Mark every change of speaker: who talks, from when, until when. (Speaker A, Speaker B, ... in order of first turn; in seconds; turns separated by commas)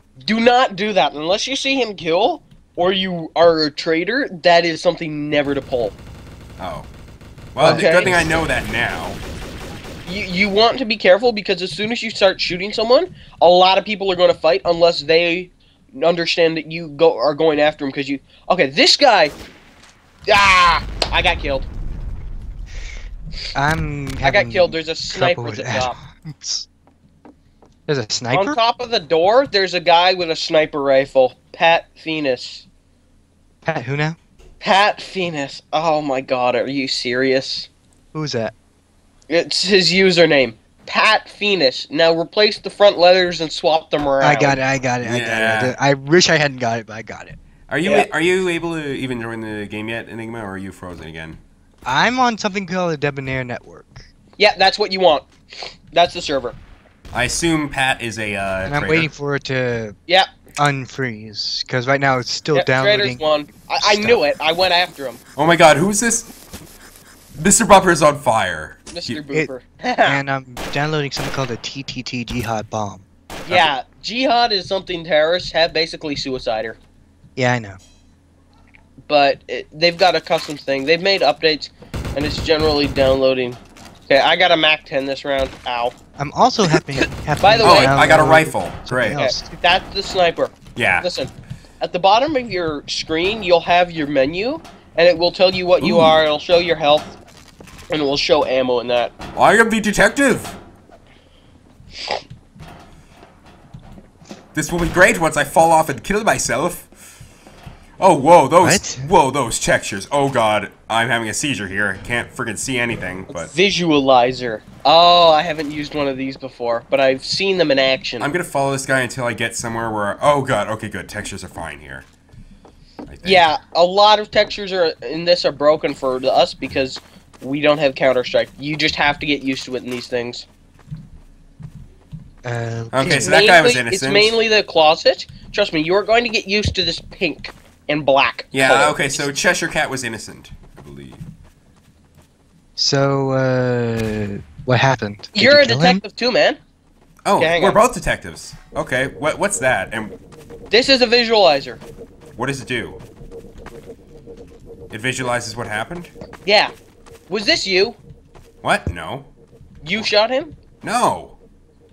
Speaker A: 0.2-5.9, Speaker B: 6.6-6.9, Speaker B: 7.5-9.2, Speaker C: 7.6-8.3, Speaker A: 7.7-8.2, Speaker A: 10.1-19.3, Speaker A: 20.3-21.7, Speaker C: 23.5-26.7, Speaker A: 24.2-25.9, Speaker C: 27.9-28.6, Speaker A: 28.3-32.6, Speaker C: 33.6-34.2, Speaker A: 34.6-37.7, Speaker C: 38.1-38.5, Speaker A: 39.3-44.6, Speaker C: 44.2-47.4, Speaker B: 45.0-45.7, Speaker B: 47.7-51.4, Speaker C: 51.9-54.1, Speaker A: 54.4-56.6, Speaker B: 57.1-59.1, Speaker C: 58.6-60.0, Speaker C: 60.6-63.2, Speaker A: 62.5-65.2, Speaker C: 63.8-64.2, Speaker B: 65.3-66.3, Speaker B: 67.3-69.2, Speaker A: 68.9-70.2, Speaker C: 70.0-73.1, Speaker A: 73.5-76.8, Speaker C: 77.3-77.8, Speaker A: 79.1-85.9, Speaker C: 86.2-89.6, Speaker A: 87.4-88.0, Speaker B: 87.6-89.2, Speaker A: 89.1-91.3, Speaker B: 90.8-91.1, Speaker A: 91.8-97.1, Speaker B: 95.8-96.2, Speaker A: 97.9-99.1, Speaker B: 99.3-100.6, Speaker B: 104.5-106.9, Speaker B: 108.0-113.5, Speaker C: 108.6-109.1, Speaker A: 113.3-118.3, Speaker B: 118.2-122.0, Speaker B: 123.1-123.5, Speaker A: 123.2-130.4, Speaker C: 132.4-133.4, Speaker B: 132.9-134.3, Speaker A: 133.0-139.3, Speaker B: 138.5-141.2, Speaker C: 142.8-146.0, Speaker A: 145.3-146.6, Speaker B: 147.2-150.1, Speaker A: 147.4-147.8, Speaker A: 150.7-151.8, Speaker B: 152.3-153.0, Speaker B: 154.9-156.1, Speaker A: 156.4-156.7, Speaker A: 157.3-158.0, Speaker B: 158.6-159.3, Speaker A: 159.8-160.5, Speaker B: 160.8-161.4